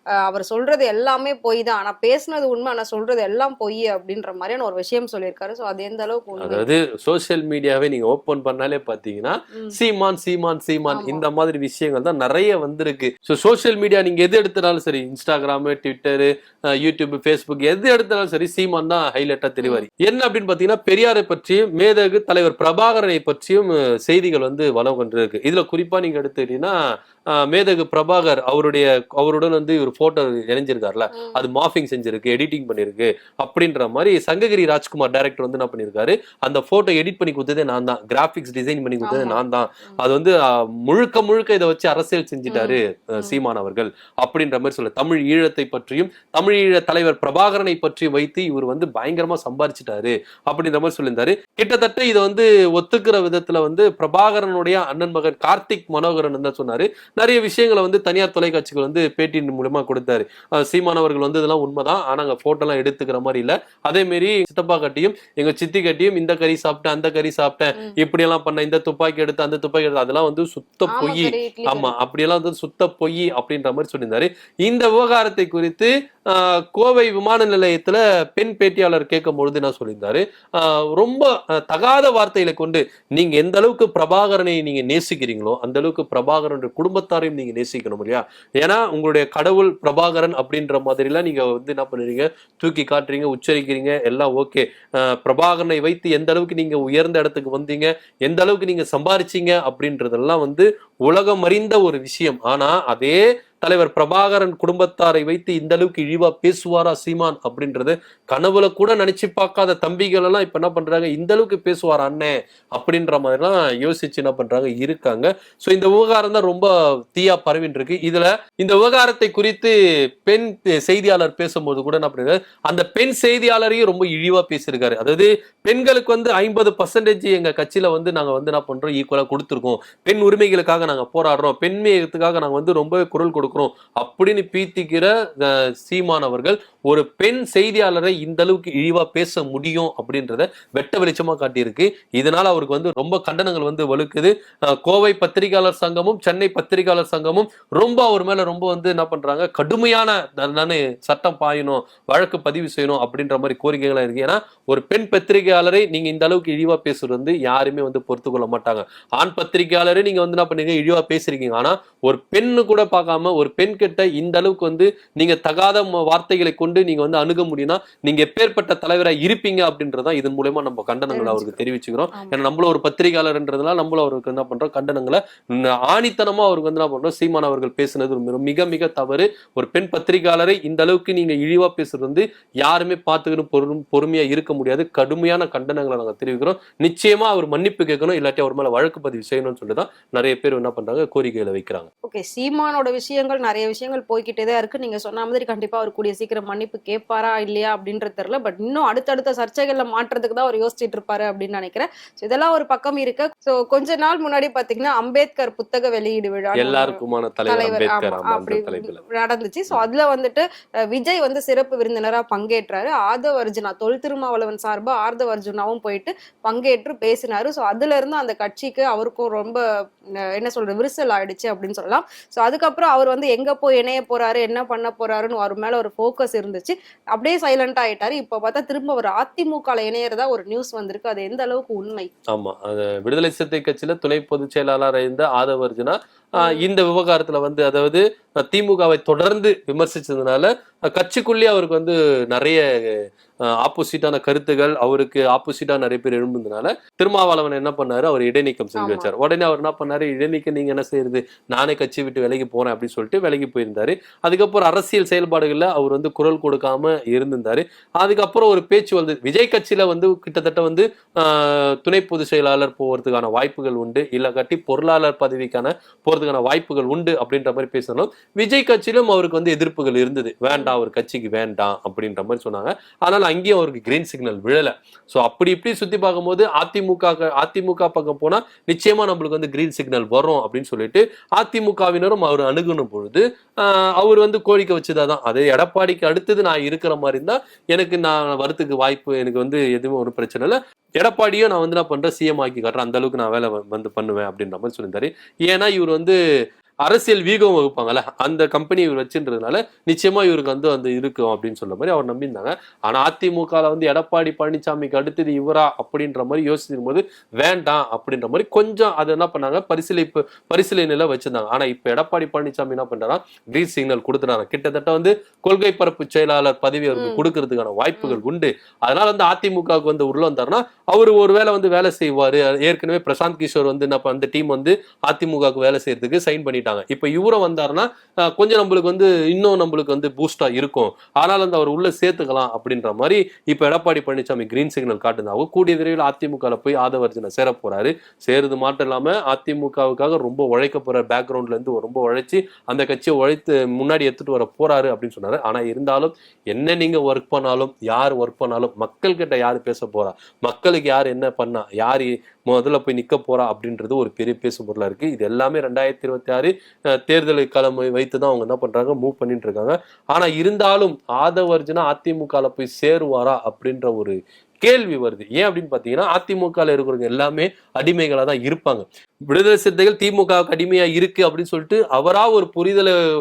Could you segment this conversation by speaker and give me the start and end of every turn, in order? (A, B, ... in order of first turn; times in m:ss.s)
0:00.3-0:06.6 A
0:06.4-0:26.7 B
0:10.9-0:11.2 A
0:27.3-1:59.7 B
0:31.1-0:31.4 A
0:39.0-0:40.0 A
0:42.5-0:43.4 A
1:10.9-1:11.9 A
2:00.3-3:11.9 B
2:51.1-2:51.6 A
2:52.1-2:52.4 A
3:12.1-3:39.6 A
3:26.6-3:29.0 B
3:40.3-3:52.1 A
3:52.3-4:03.0 B
3:56.4-3:56.6 A
4:03.5-4:56.2 B
4:08.8-4:09.1 A
4:30.5-4:30.8 A
4:56.9-6:13.0 B
5:17.0-5:17.3 A
5:18.0-5:18.2 A